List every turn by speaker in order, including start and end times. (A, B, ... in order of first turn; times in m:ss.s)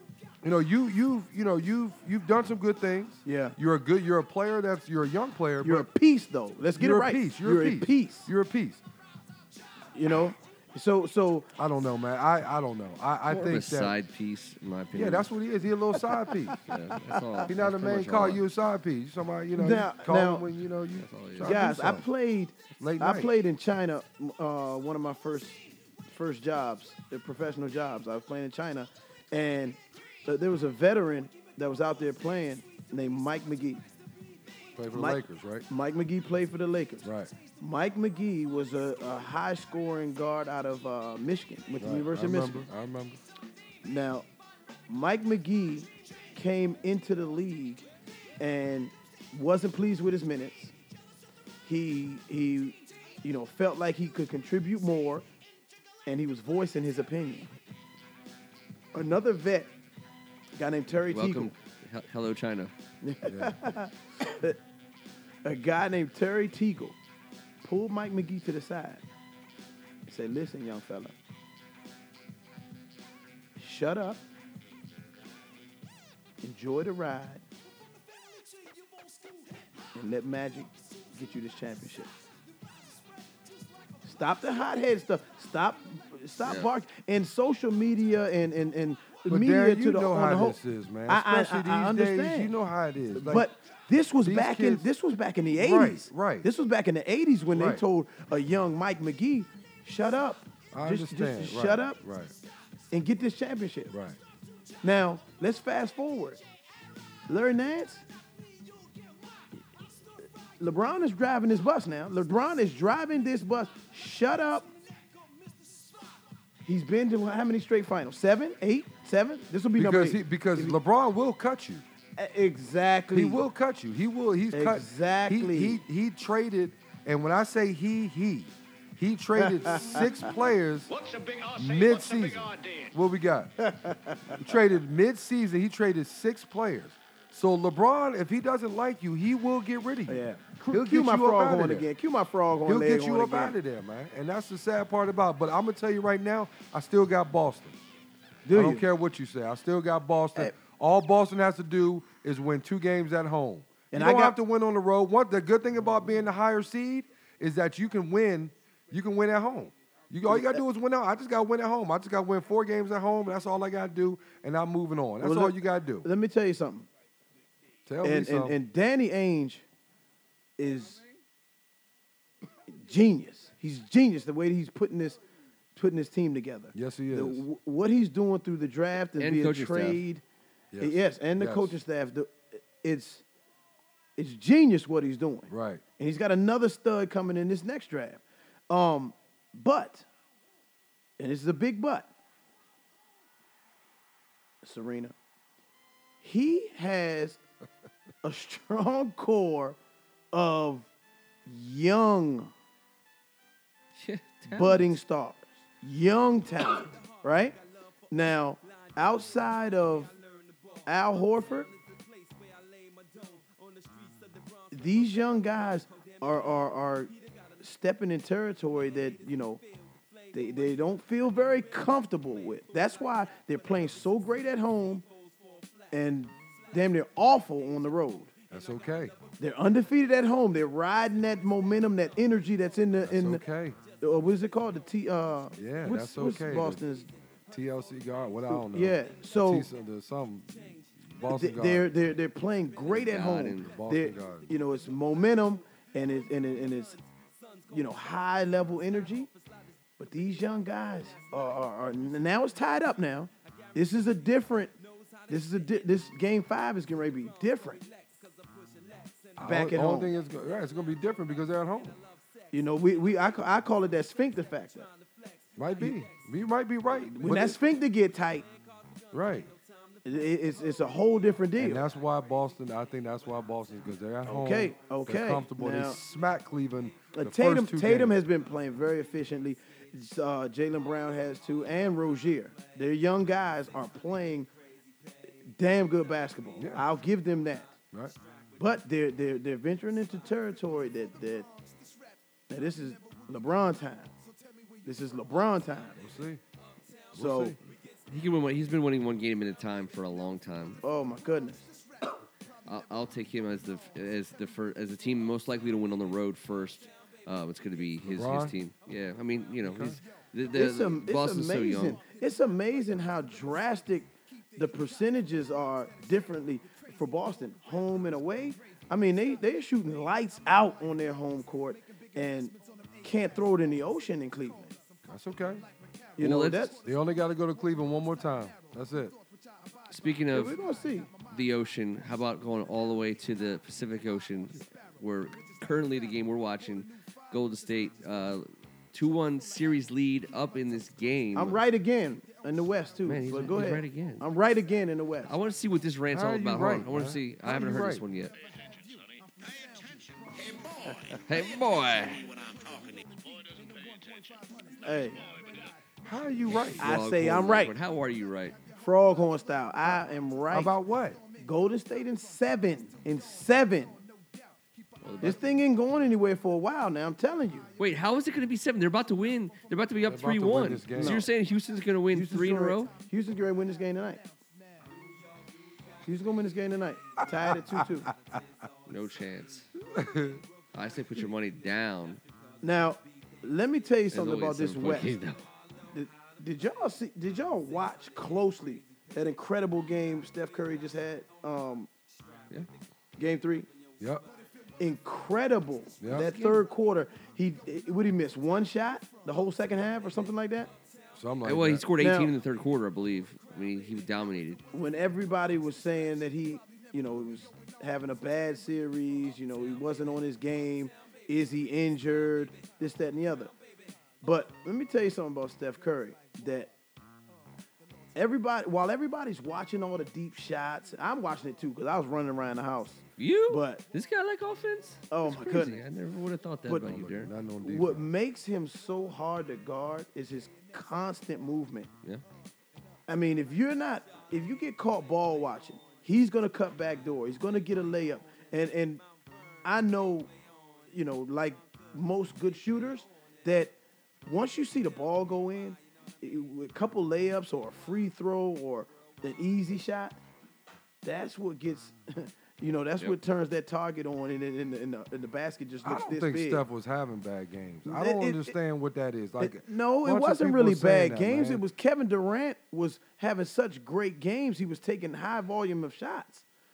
0:00.4-0:05.9 A
0:03.2-0:03.6 B
0:05.6-0:08.3 B
0:06.7-0:08.8 A
0:09.9-0:11.5 B
0:11.6-0:14.0 A
0:13.3-0:15.3 C
0:14.9-0:16.6 A
0:16.0-0:16.7 B
0:16.6-0:18.4 C
0:17.5-0:22.0 A
0:19.6-0:20.4 B
0:21.0-0:21.7 C
0:21.4-0:33.8 B
0:22.8-0:23.3 A
0:34.8-0:35.6 A
0:34.9-0:42.7 B
0:37.0-0:37.3 A
0:41.8-0:43.2 A
0:43.8-0:44.2 B
0:44.9-0:47.8 B
0:48.4-0:50.7 B
0:51.6-0:55.2 B
0:56.0-0:57.5 B
0:58.9-0:59.7 B
1:00.6-1:01.5 B
1:01.1-1:02.7 C
1:03.0-1:04.6 B
1:03.2-1:03.5 A
1:05.4-1:07.0 B
1:07.6-1:09.0 B
1:10.1-1:11.1 B
1:13.6-1:14.2 B
1:16.4-1:17.4 B
1:19.9-1:22.1 B
1:24.0-1:32.5 B
1:29.3-1:33.5 A
1:33.1-1:42.0 B
1:34.2-1:34.9 A
1:35.5-1:36.5 A
1:37.5-1:37.8 A
1:40.7-1:42.3 A
1:42.9-1:43.9 B
1:43.9-1:44.2 A
1:44.8-1:46.4 B
1:47.3-1:48.0 B
1:50.6-1:54.7 B
1:56.6-2:00.8 B
1:59.8-2:01.8 A
2:02.2-2:03.4 B
2:03.1-2:10.9 A
2:04.5-2:05.8 B
2:09.4-2:10.4 B
2:10.9-2:12.9 D
2:11.5-2:13.5 A
2:13.6-2:14.5 B
2:14.3-2:21.9 A
2:20.1-2:23.6 B
2:22.6-2:27.8 A
2:28.4-2:28.8 B
2:28.5-2:46.1 A
2:33.9-2:34.4 B
2:40.3-2:40.6 B
2:45.2-2:46.9 B
2:47.8-2:48.6 A
2:48.0-2:49.6 B
2:50.6-2:51.0 B
2:52.7-2:55.2 B
2:55.7-3:00.2 B
2:56.7-2:57.4 A
2:59.2-3:00.0 C
3:00.7-3:01.7 A
3:00.8-3:03.2 B
3:04.2-3:10.0 B
3:05.5-3:05.8 A
3:11.2-3:12.1 B
3:14.6-3:15.1 B
3:16.2-3:17.4 B
3:18.2-3:19.8 B
3:20.3-3:20.9 B
3:21.4-3:22.5 B
3:23.9-3:24.8 C
3:24.5-3:27.6 B
3:28.1-3:30.1 B
3:30.8-3:31.7 B
3:34.7-3:39.6 B
3:40.3-3:45.0 B
3:45.9-3:48.3 B
3:48.5-3:49.2 A
3:49.4-3:53.4 B
3:53.0-3:53.8 A
3:54.0-3:57.1 B
3:55.6-3:56.8 A
3:57.5-4:01.9 A
3:58.5-3:59.7 B
4:01.3-4:07.0 B
4:02.9-4:03.7 C
4:03.6-4:04.5 A
4:07.7-4:09.3 B
4:10.0-4:14.7 B
4:15.3-4:17.8 B
4:19.4-4:22.0 A
4:19.4-4:20.1 B
4:22.5-4:24.9 B
4:25.6-4:27.6 A
4:27.0-4:28.4 B
4:29.1-4:29.5 A
4:30.0-4:31.9 B
4:31.6-4:38.2 A
4:34.2-4:36.0 B
4:37.1-4:44.5 B
4:45.5-4:47.7 B
4:46.6-4:46.8 A
4:48.6-4:51.5 B
4:52.5-4:54.1 B
4:54.8-4:56.0 B
4:56.0-4:56.4 A
4:57.1-4:57.6 B
4:57.1-4:57.6 A
4:58.1-5:00.8 C
5:00.8-5:01.6 B
5:02.7-5:12.0 C
5:08.0-5:08.6 A
5:09.6-5:10.0 A
5:10.5-5:24.7 B
5:25.1-5:25.6 A
5:26.2-5:26.8 B
5:26.2-5:26.7 C
5:26.8-5:29.1 A
5:29.9-5:30.6 C
5:30.3-5:31.1 B
5:31.3-5:41.6 C
5:41.3-5:45.3 B
5:43.0-5:44.2 C
5:45.3-5:48.3 C
5:46.1-5:48.0 A
5:51.3-5:52.2 C
5:52.6-5:53.0 D
5:53.6-5:54.4 D
5:54.8-5:55.2 B
5:56.0-5:56.9 A
5:56.6-5:58.6 C
5:56.8-5:57.7 B
5:58.7-6:00.7 B
6:00.5-6:01.2 A
6:01.4-6:04.0 B
6:05.0-6:05.4 C
6:05.2-6:07.7 B
6:07.8-6:12.9 C
6:10.0-6:11.2 A
6:11.0-6:11.3 B
6:12.1-6:14.2 B
6:16.0-6:18.1 B
6:17.4-6:18.4 A
6:18.9-6:19.7 C
6:19.8-6:20.4 A
6:20.7-6:22.2 C
6:22.6-6:25.2 B
6:24.1-6:25.4 C
6:25.9-6:31.9 B
6:33.2-6:33.7 B
6:34.0-6:34.2 A
6:34.8-6:40.7 B
6:36.0-6:36.3 A
6:36.1-6:36.6 C
6:41.1-6:41.9 A
6:41.4-6:44.6 C
6:42.0-6:42.3 B
6:44.7-6:53.5 B
6:54.2-6:56.7 B
6:58.1-7:03.8 B
7:03.2-7:07.3 C
7:05.1-7:05.8 B
7:06.6-7:07.0 B
7:06.8-7:08.1 A
7:07.6-7:11.9 B
7:13.1-7:19.0 B
7:19.6-7:20.3 B
7:20.9-7:23.7 B
7:24.2-7:30.2 B
7:31.0-7:36.6 B
7:35.8-7:41.6 A
7:37.8-7:38.6 B
7:39.4-7:46.4 B